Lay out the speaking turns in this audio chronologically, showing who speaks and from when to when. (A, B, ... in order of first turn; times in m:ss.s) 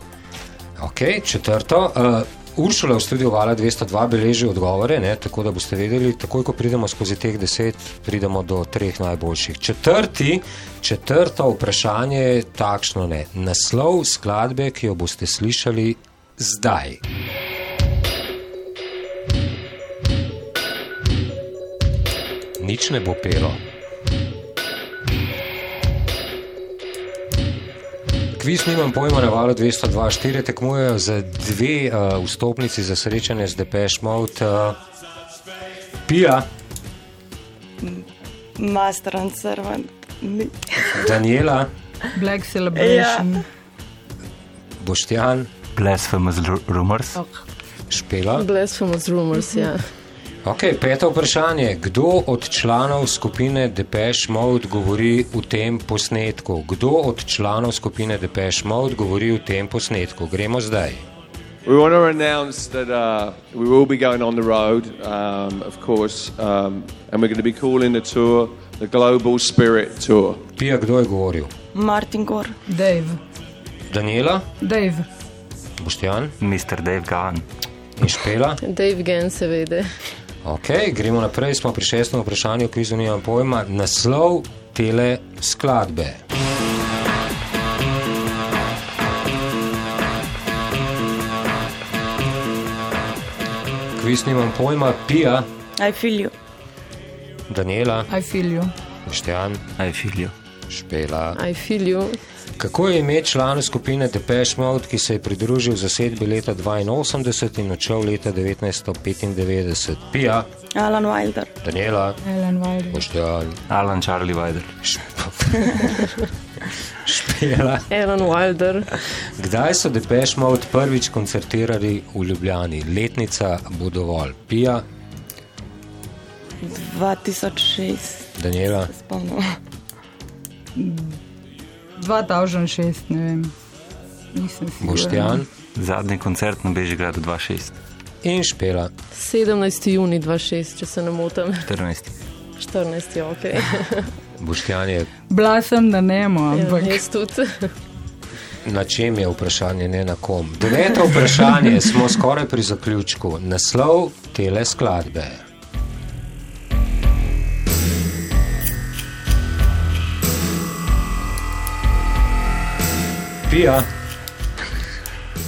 0:00.8-0:17.0 A
0:22.6-0:23.6 A
0:28.4-0:34.8 A
0:36.1-0:36.5 A
0:37.8-0:38.1 B
0:38.6-0:41.2 B
0:40.9-0:41.7 A
0:42.2-0:43.4 C
0:42.7-0:43.3 B
0:44.8-0:45.5 A
0:45.8-0:47.2 D
0:47.9-0:48.4 A
0:48.4-0:49.8 E
0:50.4-1:01.0 A
1:01.7-1:10.4 F
1:10.5-1:11.5 A
1:11.7-1:12.6 B
1:12.7-1:13.2 C
1:13.9-1:14.4 A
1:14.6-1:15.0 C
1:15.8-1:16.3 A
1:16.4-1:17.4 D
1:18.0-1:18.6 A
1:18.6-1:19.8 E
1:20.4-1:26.2 A
1:34.0-1:35.5 A
1:35.8-1:36.3 B
1:37.5-1:38.1 A
1:38.1-1:38.7 C
1:39.1-1:39.6 A
1:39.8-1:40.3 D
1:40.7-1:41.4 A
1:41.3-1:42.2 E
1:42.6-1:50.5 A
1:50.7-1:51.5 B
1:51.6-1:52.2 A
1:52.2-1:53.0 C
1:52.9-1:53.6 A
1:53.7-1:54.7 D
1:54.8-1:56.2 A
1:57.0-1:57.9 A
1:57.9-1:58.9 E
1:59.4-2:04.8 A
2:06.6-2:09.4 B
2:08.4-2:08.9 A
2:10.8-2:11.2 C
2:12.0-2:13.5 C
2:14.3-2:15.4 C
2:14.8-2:15.4 A
2:15.7-2:17.8 D
2:18.2-2:18.9 A
2:19.1-2:21.7 E
2:21.7-2:22.1 D
2:22.6-2:24.1 E
2:24.4-2:25.1 A
2:25.3-2:27.0 C
2:26.5-2:27.7 E
2:28.6-2:35.4 A
2:43.5-2:43.9 A